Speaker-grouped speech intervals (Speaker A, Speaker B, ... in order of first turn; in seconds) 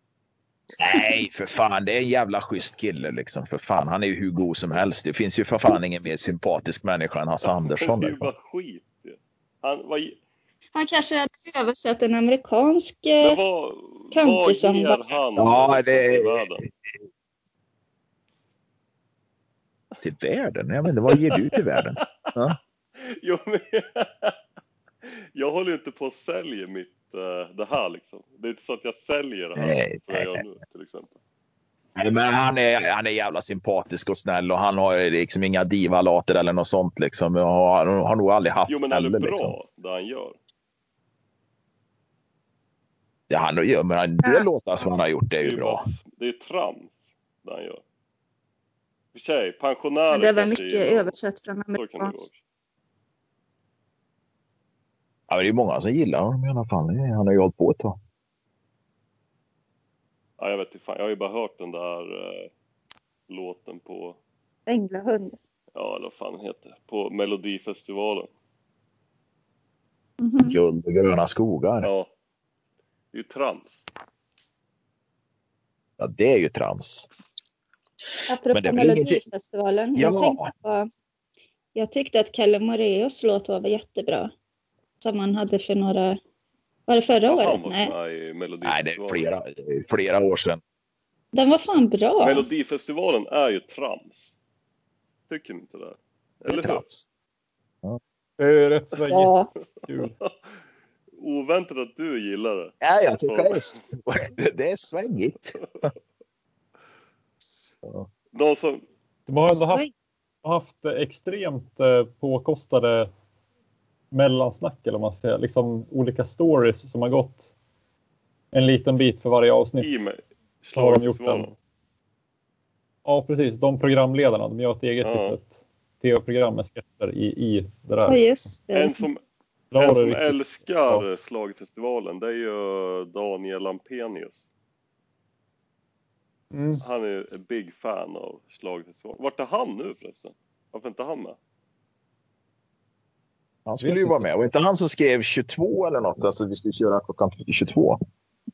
Speaker A: 0.8-8.3, 15.4-16.5, 20.0-22.6, 29.6-30.4, 32.0-39.5, 43.3-45.8, 55.3-58.0, 70.4-71.9, 76.0-77.1, 78.5-79.2, 80.0-80.5, 88.6-90.6, 96.5-97.1, 102.8-105.9, 143.7-148.0
Speaker B: 7.7-10.2, 13.2-16.6, 21.1-22.3, 23.1-24.4, 25.1-31.2, 38.7-40.4, 45.4-47.8, 49.1-51.1, 51.8-52.4, 60.4-62.5, 63.3-64.2, 65.7-68.3, 71.8-72.1, 73.1-73.9, 87.3-89.3, 92.2-94.3, 95.3-96.8, 101.2-102.7, 103.3-103.8, 108.3-108.8, 119.8-121.5, 125.0-125.3, 128.7-129.2, 129.8-134.5, 136.8-141.4
Speaker C: 10.8-13.4, 14.1-15.0, 50.1-52.2, 64.7-65.4, 70.2-70.5, 78.3-80.9, 81.8-84.3, 85.0-86.2, 86.9-87.9, 91.3-92.5, 99.1-99.5, 109.5-109.9, 128.1-129.0
Speaker D: 98.4-100.2, 109.3-109.9, 110.4-113.1, 114.1-117.5, 118.5-119.9, 120.8-121.5, 123.0-128.2, 129.7-131.1, 136.5-136.8, 143.8-144.3